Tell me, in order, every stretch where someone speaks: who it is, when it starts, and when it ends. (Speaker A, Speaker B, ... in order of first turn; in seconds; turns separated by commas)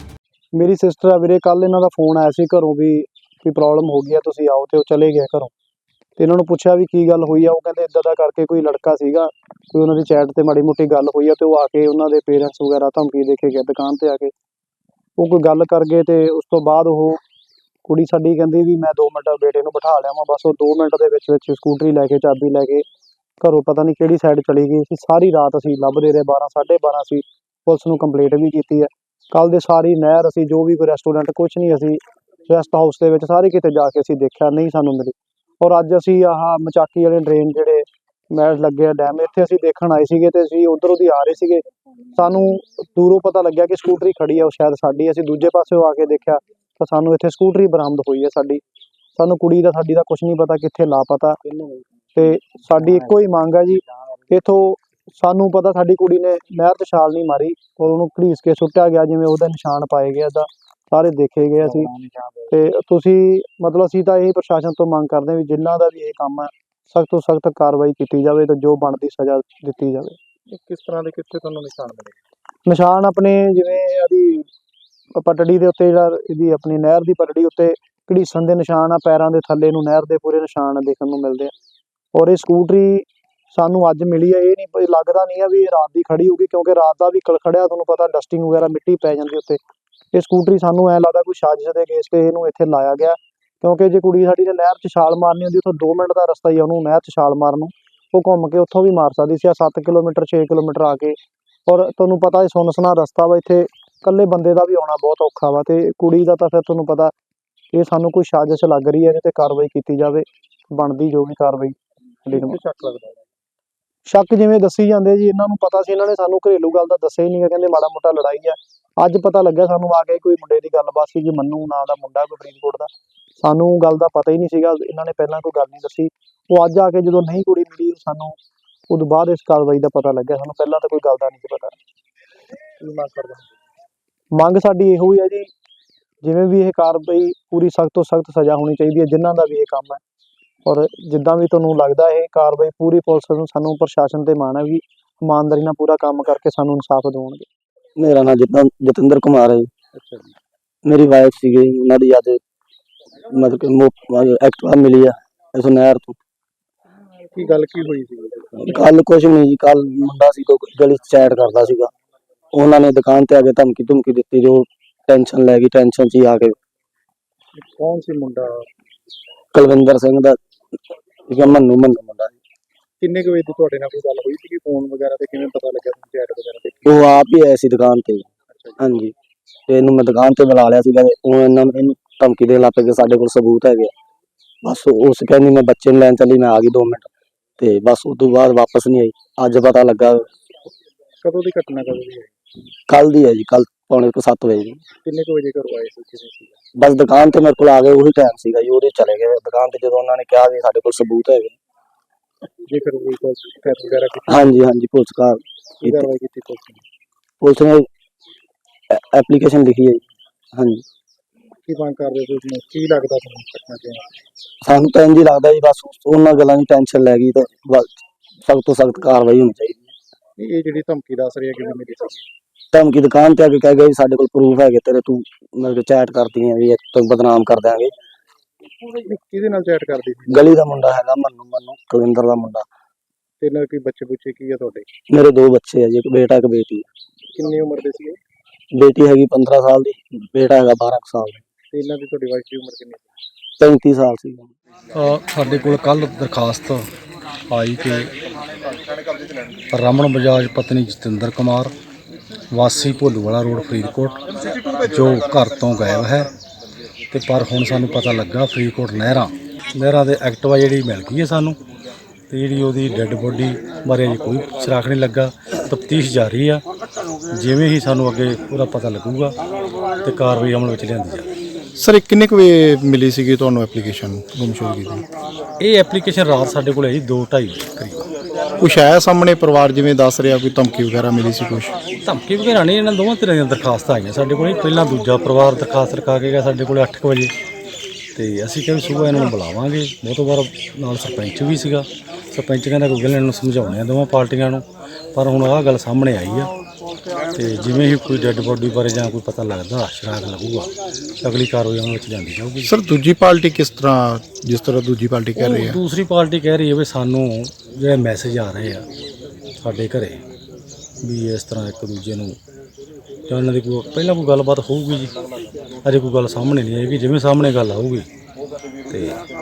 Speaker A: 0.5-5.5, Speaker A: 6.2-14.3, Speaker A: 15.2-17.2, Speaker A: 17.9-22.8, Speaker A: 23.4-41.6, Speaker A: 42.1-48.6, Speaker A: 49.1-51.4, Speaker A: 52.1-61.9, Speaker A: 62.5-70.2, Speaker B: 70.5-72.2, Speaker A: 72.7-74.5, Speaker A: 75.2-81.5, Speaker A: 82.1-89.6, Speaker A: 90.1-107.1, Speaker A: 107.7-111.7, Speaker A: 112.3-112.6, Speaker B: 112.3-113.2, Speaker A: 114.0-122.9, Speaker A: 123.4-128.4, Speaker A: 128.9-131.8, Speaker B: 132.8-133.5, Speaker A: 134.3-135.5, Speaker A: 136.2-140.0, Speaker A: 140.6-147.4, Speaker C: 148.0-149.7, Speaker B: 150.0-150.2, Speaker C: 150.8-152.4, Speaker C: 153.3-156.2, Speaker B: 157.3-158.7, Speaker C: 158.6-161.9, Speaker C: 162.5-166.6, Speaker B: 167.6-168.7, Speaker C: 169.5-170.4, Speaker C: 171.3-172.4, Speaker B: 173.0-177.1, Speaker C: 176.8-179.1, Speaker C: 179.7-183.9, Speaker C: 184.6-190.4, Speaker B: 191.2-192.3, Speaker C: 192.9-194.8, Speaker B: 195.0-196.6, Speaker C: 196.8-201.6, Speaker B: 202.6-204.3, Speaker C: 204.3-206.1, Speaker B: 205.8-206.8, Speaker C: 207.4-207.9, Speaker C: 208.9-210.8, Speaker B: 211.7-214.1, Speaker C: 214.6-219.9, Speaker B: 220.4-222.3, Speaker C: 222.7-227.9, Speaker B: 228.9-230.3, Speaker C: 230.3-232.7, Speaker B: 233.4-234.9, Speaker C: 235.1-236.8, Speaker B: 237.3-238.2, Speaker C: 238.7-241.4, Speaker B: 241.7-243.1, Speaker C: 243.6-244.5, Speaker D: 244.9-246.8, Speaker D: 247.5-248.1, Speaker D: 249.7-251.7, Speaker D: 252.5-254.2, Speaker D: 254.8-256.3, Speaker D: 257.1-261.6, Speaker D: 262.3-266.6, Speaker D: 267.3-269.4, Speaker D: 270.0-271.3, Speaker E: 271.8-275.0, Speaker D: 275.6-278.1, Speaker E: 278.6-281.7, Speaker D: 282.0-287.3, Speaker D: 288.1-296.5, Speaker D: 297.3-300.7, Speaker D: 301.2-302.7, Speaker E: 302.6-305.8, Speaker D: 305.4-308.9, Speaker D: 309.6-310.2, Speaker D: 311.0-312.4, Speaker D: 313.3-315.1, Speaker D: 315.8-318.1, Speaker D: 318.9-319.2